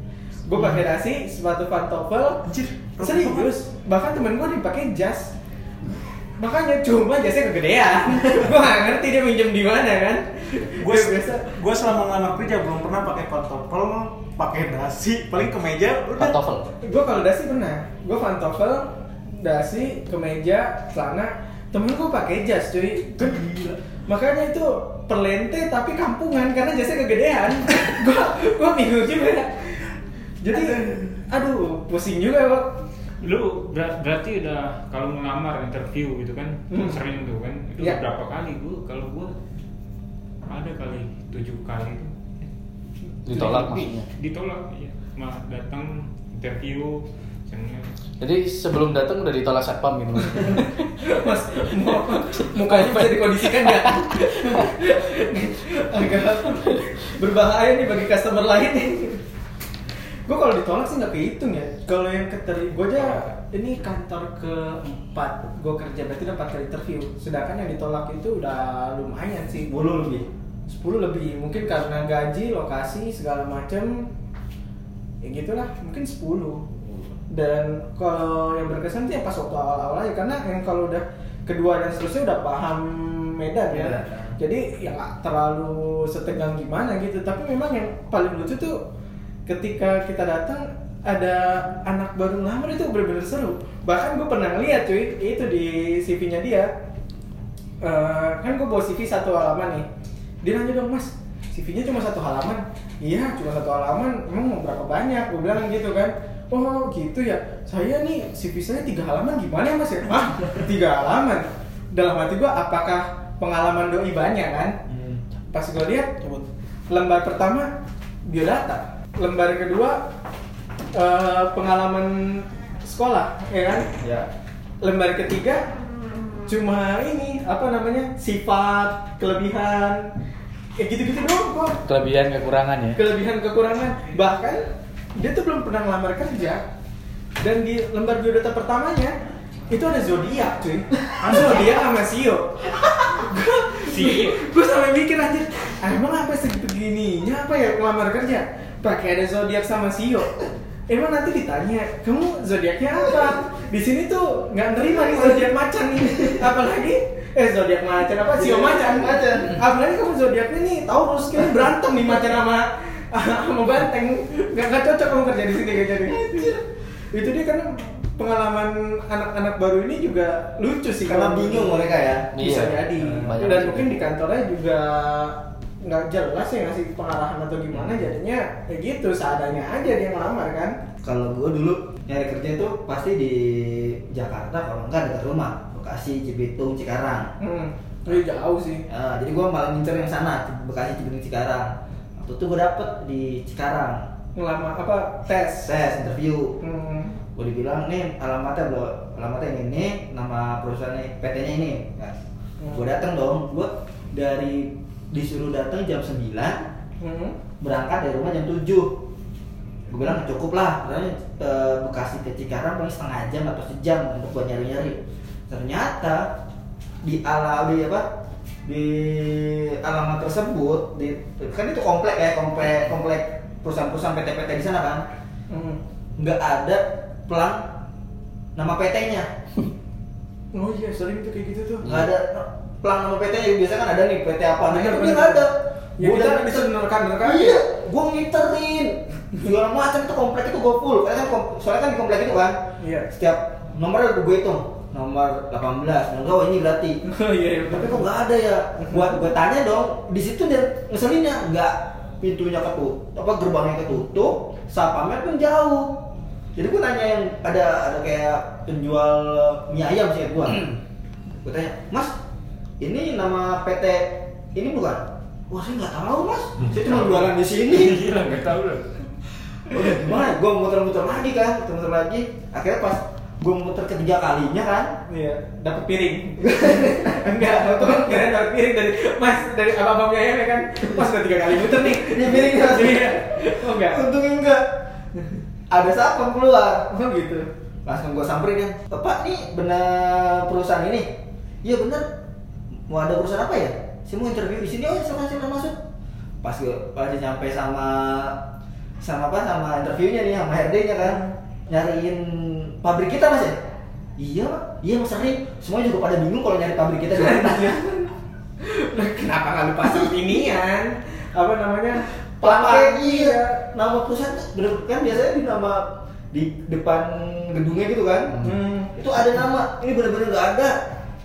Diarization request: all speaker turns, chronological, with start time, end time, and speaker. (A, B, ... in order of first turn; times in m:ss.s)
0:00.5-0:02.4 A
0:02.4-0:03.5 B
0:03.0-0:05.3 A
0:06.4-0:11.6 A
0:10.8-0:16.4 B
0:16.2-0:16.7 C
0:16.8-0:29.9 A
0:23.3-0:23.8 B
0:30.4-0:32.7 A
0:33.2-0:39.4 D
0:36.7-0:37.0 A
0:40.5-0:42.1 D
0:43.3-0:44.1 C
0:43.3-0:47.9 D
0:48.2-0:50.9 C
0:51.0-0:59.2 A
0:52.6-0:54.7 C
1:00.3-1:09.7 A
1:09.7-1:10.3 E
1:10.7-1:14.1 A
1:15.2-1:28.8 A
1:23.7-1:24.4 E
1:29.5-1:36.7 A
1:37.8-1:39.9 A
1:40.4-1:54.8 A
1:54.9-1:55.2 E
1:55.5-1:57.7 A
1:58.3-2:00.0 A
2:00.9-2:03.9 A
2:03.9-2:04.3 E
2:04.8-2:05.6 A
2:06.5-2:10.1 A
2:10.8-2:11.8 A
2:11.9-2:13.0 C
2:13.0-2:14.6 A
2:15.2-2:16.6 A
2:17.4-2:19.2 A
2:19.7-2:30.4 A
2:23.9-2:24.4 D
2:30.9-2:46.6 A
2:38.4-2:39.6 E
2:47.1-3:00.8 A
2:51.0-2:52.3 E
2:52.3-2:54.0 C
2:57.7-2:58.0 E
3:01.0-3:07.3 E
3:07.4-3:08.8 A
3:08.9-3:14.1 E
3:14.4-3:15.8 A
3:15.6-3:16.6 E
3:16.6-3:17.2 A
3:17.4-3:22.2 E
3:22.6-3:22.9 A
3:22.7-3:26.7 E
3:27.0-3:27.4 A
3:27.6-3:29.0 E
3:29.9-3:36.4 E
3:37.0-3:38.1 E
3:38.6-3:45.1 E
3:45.5-3:45.8 A
3:46.2-3:47.7 E
3:48.6-3:49.3 E
3:50.5-3:52.0 A
3:51.8-4:07.0 E
3:54.7-3:55.5 A
3:56.0-3:57.6 A
4:02.8-4:03.1 A
4:07.1-4:08.1 A
4:07.7-4:16.0 E
4:08.8-4:09.1 A
4:16.6-4:20.8 E
4:21.4-4:22.2 E
4:22.8-4:28.1 E
4:26.6-4:28.9 D
4:29.7-4:35.0 E
4:35.1-4:44.0 A
4:36.4-4:38.3 E
4:40.8-4:44.6 E
4:45.7-4:46.9 E
4:46.9-4:47.5 A
4:47.8-4:52.1 E
4:52.9-4:55.8 E
4:56.4-4:58.4 E
4:59.0-5:03.6 E
5:01.0-5:01.3 A
5:04.2-5:08.1 E
5:07.5-5:07.8 A
5:08.6-5:13.5 A
5:09.8-5:10.4 E
5:12.4-5:20.8 E
5:18.4-5:18.9 A